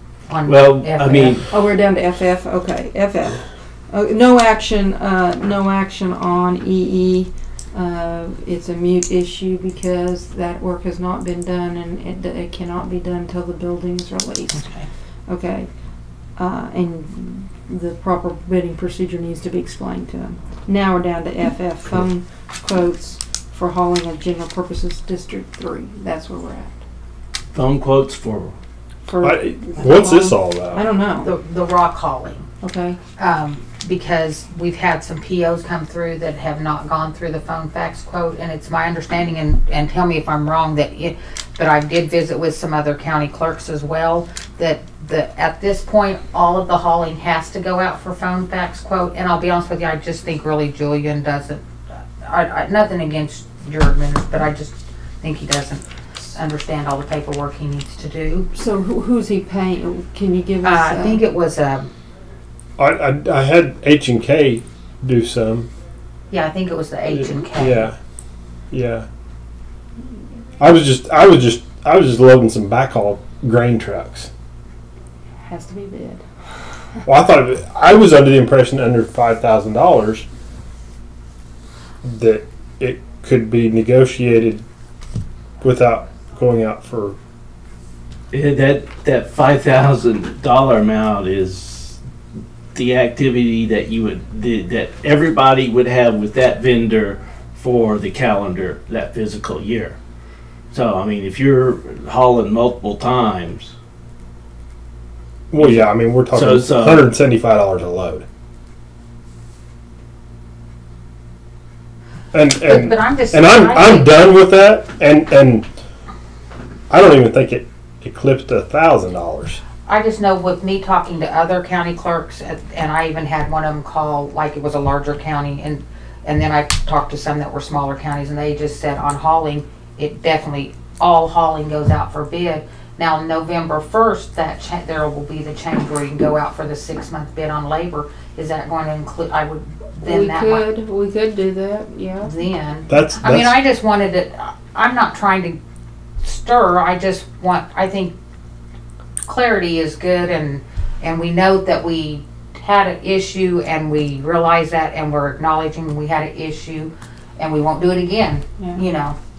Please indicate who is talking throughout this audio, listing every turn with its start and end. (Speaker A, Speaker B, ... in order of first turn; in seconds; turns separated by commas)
Speaker A: 0.3-1.4, Speaker B: 0.5-1.5, Speaker C: 1.5-14.6, Speaker A: 14.5-14.9, Speaker C: 15.3-15.7, Speaker C: 16.4-26.8, Speaker B: 27.5-28.5, Speaker C: 29.1-31.3, Speaker D: 29.2-30.8, Speaker A: 31.2-32.5, Speaker C: 32.6-33.0, Speaker A: 33.2-51.6, Speaker A: 52.2-58.5, Speaker C: 58.5-61.2, Speaker A: 60.6-61.9, Speaker D: 62.8-65.7, Speaker A: 66.3-67.9, Speaker D: 67.1-68.0, Speaker D: 68.7-69.0, Speaker D: 70.6-74.3, Speaker C: 75.4-76.2, Speaker D: 77.0-80.2, Speaker D: 82.0-84.6, Speaker D: 85.6-87.2, Speaker B: 88.3-92.0, Speaker B: 92.7-100.0, Speaker B: 100.7-103.7, Speaker D: 105.5-108.2, Speaker B: 105.6-107.1, Speaker D: 112.3-115.7, Speaker A: 112.6-114.2, Speaker D: 116.9-119.6, Speaker A: 119.8-140.6, Speaker C: 140.0-142.3, Speaker A: 142.2-145.6, Speaker D: 142.9-143.6, Speaker A: 146.2-148.1, Speaker A: 149.2-159.2